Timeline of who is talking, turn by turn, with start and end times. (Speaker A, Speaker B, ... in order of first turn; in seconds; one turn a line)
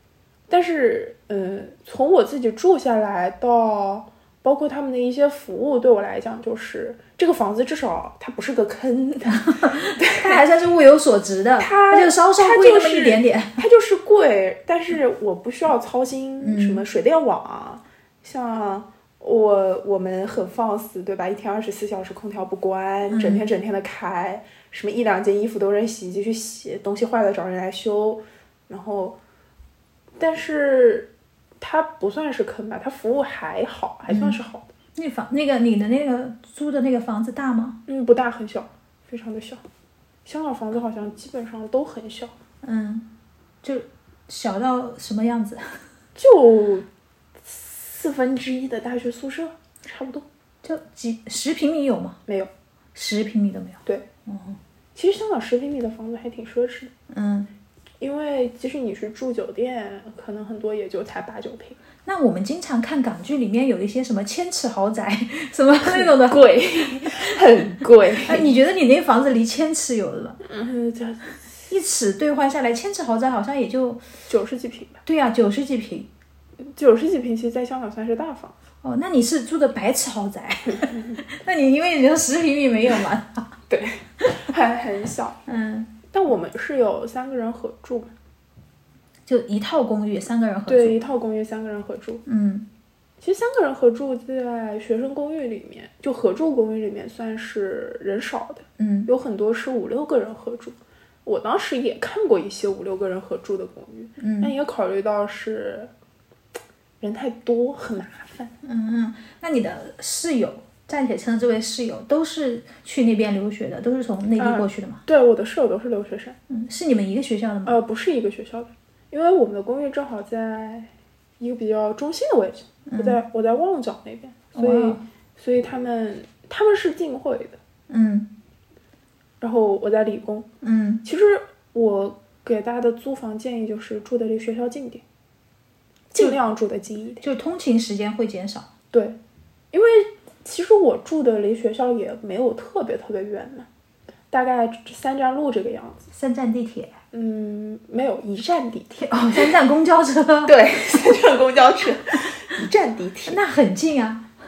Speaker A: 0.5-10.4
Speaker B: 9.3-13.6
Speaker A: 11.6-29.2
Speaker B: 16.4-16.9
Speaker B: 23.1-23.5
Speaker A: 30.2-31.1
Speaker A: 31.6-34.7
Speaker B: 34.1-34.4
Speaker B: 35.0-37.8
Speaker A: 37.9-39.6
Speaker A: 40.3-42.4
Speaker B: 42.6-43.1
Speaker B: 43.6-45.8
Speaker A: 46.2-46.9
Speaker A: 47.5-50.2
Speaker B: 50.6-52.2
Speaker B: 53.0-54.6
Speaker A: 55.0-56.9
Speaker B: 57.1-57.5
Speaker A: 58.0-61.8
Speaker B: 62.0-67.4
Speaker A: 65.8-68.5
Speaker B: 68.2-70.4
Speaker A: 70.4-71.4
Speaker B: 71.7-74.0
Speaker A: 74.3-75.0
Speaker B: 75.0-76.1
Speaker A: 76.6-78.5
Speaker B: 78.8-83.5
Speaker A: 83.7-85.4
Speaker B: 85.5-85.9
Speaker A: 86.1-88.1
Speaker B: 89.3-91.0
Speaker A: 90.7-92.2
Speaker B: 92.3-92.7
Speaker A: 93.2-105.9
Speaker B: 98.8-99.1
Speaker B: 104.2-104.5
Speaker A: 107.0-108.5
Speaker B: 108.6-115.0
Speaker A: 114.4-116.4
Speaker B: 116.5-117.8
Speaker A: 117.7-127.6
Speaker B: 122.9-123.2
Speaker B: 124.5-125.0
Speaker B: 127.9-128.3
Speaker A: 129.4-130.5
Speaker B: 130.6-131.0
Speaker A: 131.0-135.0
Speaker A: 136.1-137.2
Speaker B: 137.2-138.7
Speaker A: 139.7-143.7
Speaker A: 144.3-146.1
Speaker B: 146.1-146.9
Speaker A: 147.1-149.4
Speaker B: 149.0-150.6
Speaker A: 150.4-153.4
Speaker B: 153.3-154.3